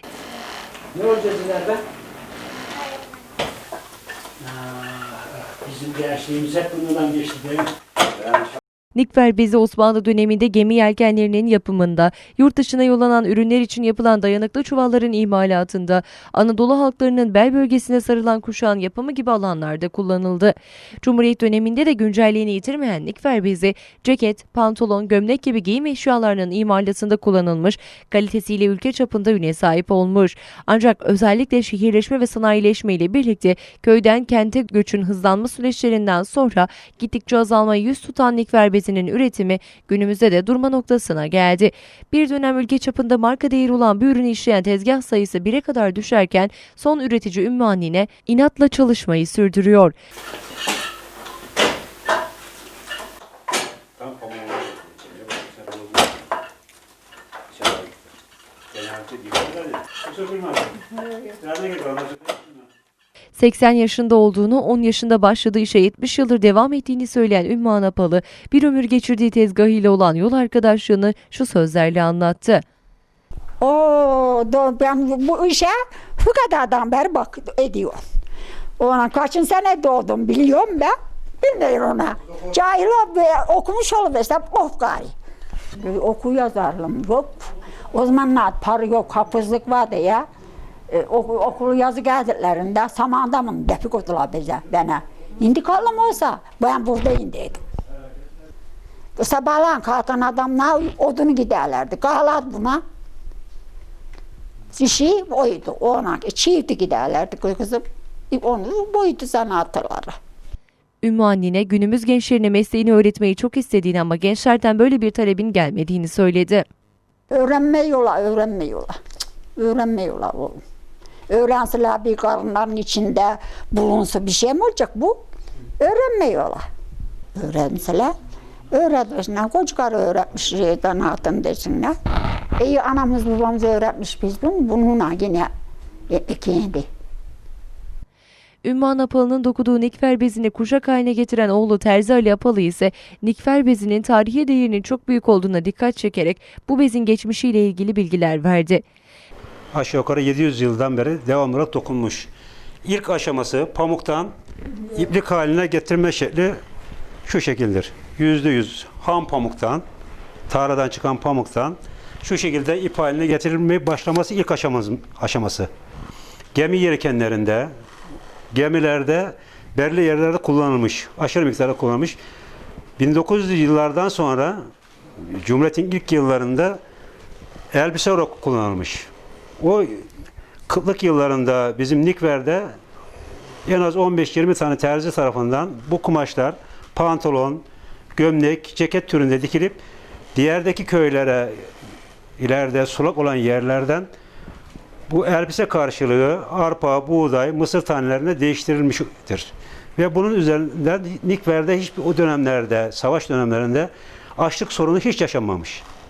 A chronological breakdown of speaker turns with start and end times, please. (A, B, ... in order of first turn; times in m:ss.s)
0:00.9-0:01.8 A
0:04.5-0:07.7 A
0:09.0-0:50.0 B
0:54.0-0:56.2 C
0:57.5-0:57.9 C
0:58.7-1:02.5 C
1:03.4-1:12.6 B
1:13.6-1:18.0 D
1:18.8-1:25.1 D
1:25.8-1:30.2 D
1:30.9-1:37.6 D
1:39.2-1:42.8 D
1:44.7-1:50.1 D
1:51.0-1:56.7 B
1:57.3-1:58.9 D
1:59.6-2:00.6 D
2:01.3-2:05.2 D
2:05.8-2:06.6 D
2:07.4-2:08.1 D
2:08.7-2:11.9 D
2:12.6-2:15.5 D
2:16.1-2:16.8 D
2:18.6-2:28.8 B
2:29.7-2:32.3 C
2:32.8-2:34.3 C
2:34.9-2:36.6 C
2:37.3-2:39.8 C
2:40.5-2:45.7 C
2:46.6-2:47.7 C
2:48.5-2:52.2 C
2:53.0-2:54.6 C
2:55.2-2:56.8 C
2:57.7-2:59.1 C
2:59.6-3:00.0 C
3:00.7-3:02.7 C
3:03.7-3:07.6 C
3:08.2-3:09.8 C
3:10.4-3:11.7 C
3:12.4-3:14.1 C
3:15.1-3:25.8 C